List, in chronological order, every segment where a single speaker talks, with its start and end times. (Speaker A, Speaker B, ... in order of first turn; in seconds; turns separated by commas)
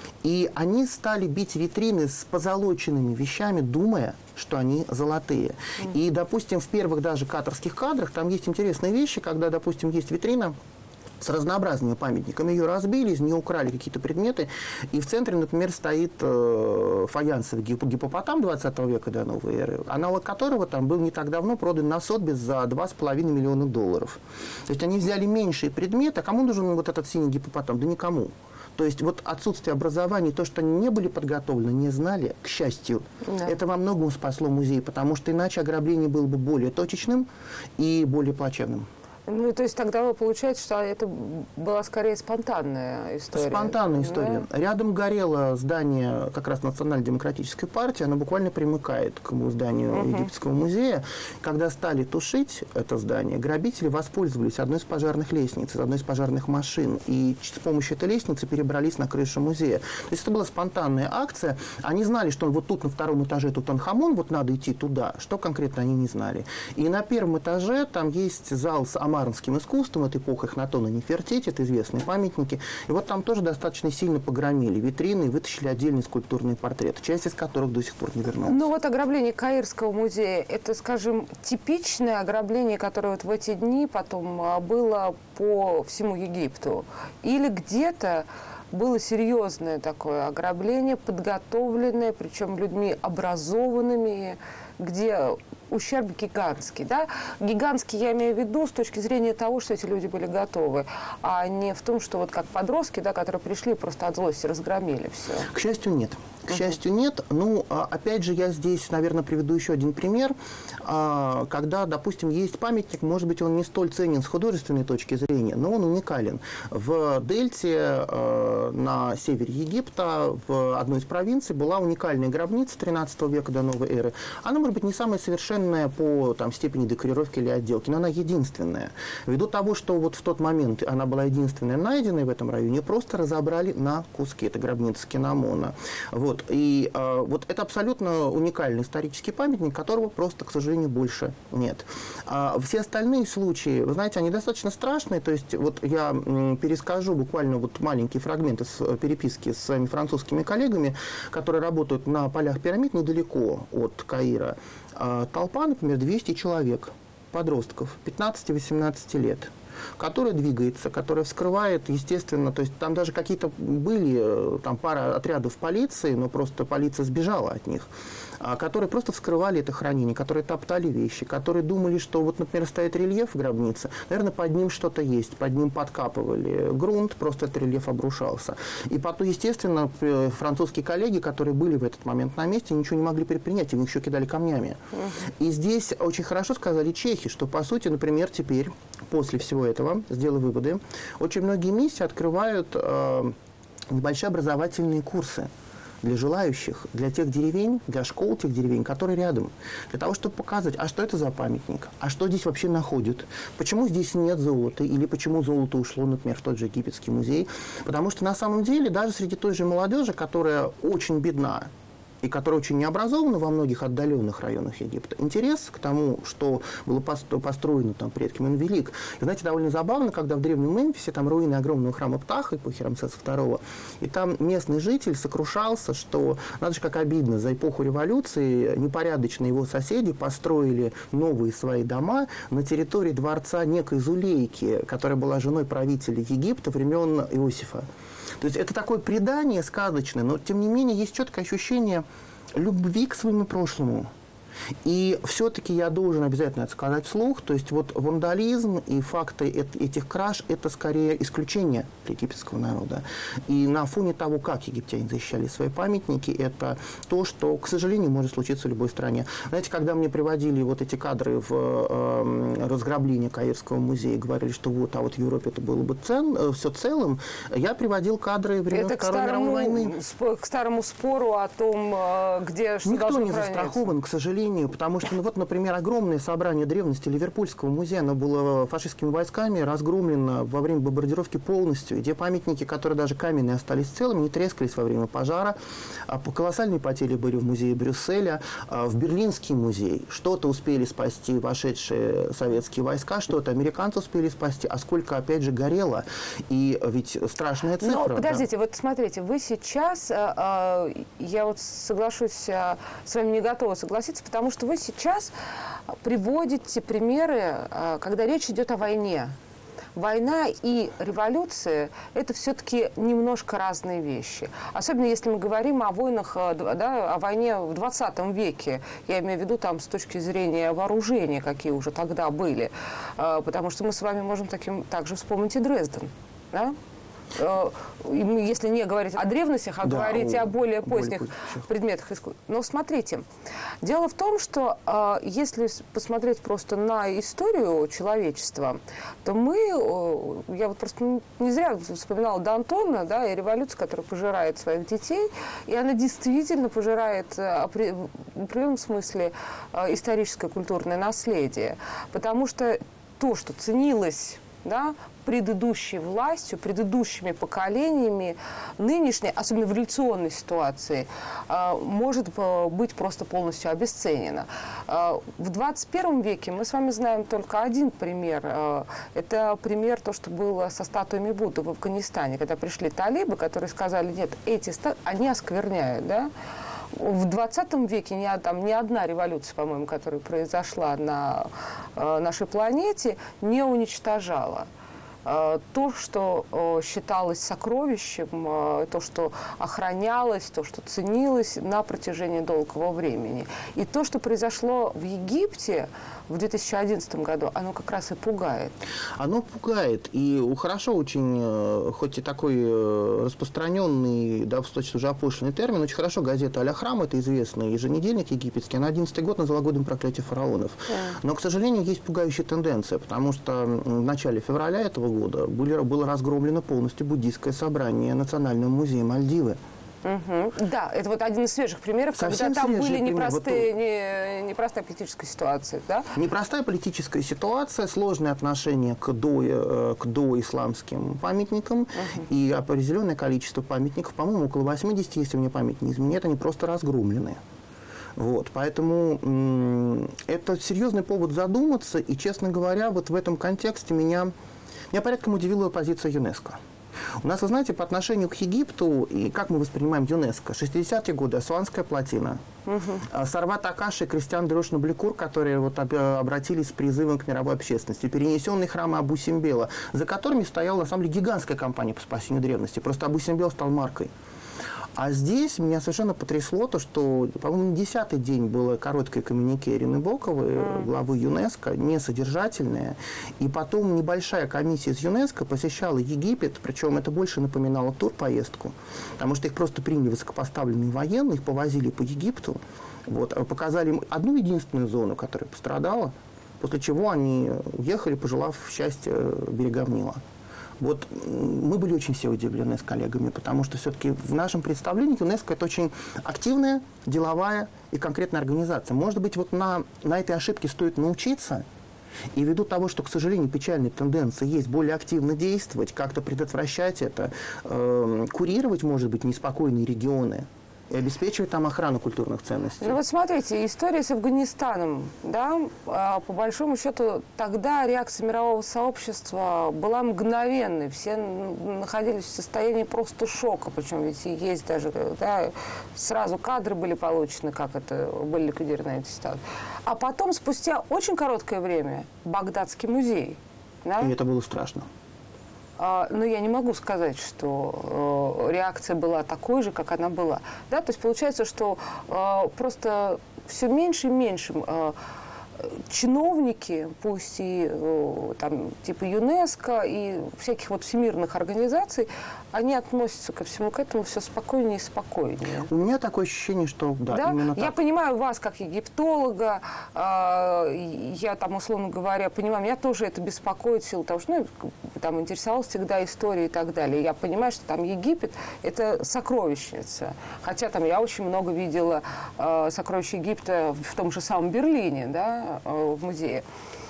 Speaker A: 0.2-10.5, Speaker A: 11.2-38.9, Speaker B: 33.2-33.5, Speaker B: 39.3-44.5, Speaker A: 43.3-78.6, Speaker B: 49.9-50.3, Speaker B: 78.5-105.5, Speaker A: 105.5-167.9, Speaker A: 168.4-193.3, Speaker B: 184.9-185.3, Speaker A: 193.9-195.5, Speaker A: 196.0-211.7, Speaker A: 212.2-237.8, Speaker A: 238.4-244.1, Speaker A: 244.8-269.9, Speaker B: 268.7-273.8, Speaker A: 272.8-285.6, Speaker A: 286.1-298.4, Speaker B: 297.8-305.3, Speaker B: 306.0-309.3, Speaker B: 309.9-326.8, Speaker B: 327.3-333.2, Speaker A: 329.8-331.6, Speaker B: 333.8-376.3, Speaker B: 376.9-384.7, Speaker B: 385.2-398.7, Speaker A: 399.2-419.6, Speaker B: 420.0-426.1, Speaker A: 422.1-423.7, Speaker A: 426.1-437.4, Speaker A: 438.1-444.3, Speaker A: 444.9-446.6, Speaker A: 447.2-452.4, Speaker B: 452.6-453.0, Speaker A: 453.0-464.1, Speaker A: 465.0-490.2, Speaker A: 490.8-501.6, Speaker A: 502.3-513.0, Speaker B: 512.8-534.1, Speaker A: 534.0-534.9, Speaker B: 535.8-545.0, Speaker B: 545.6-555.7, Speaker A: 555.6-557.7, Speaker B: 557.1-576.4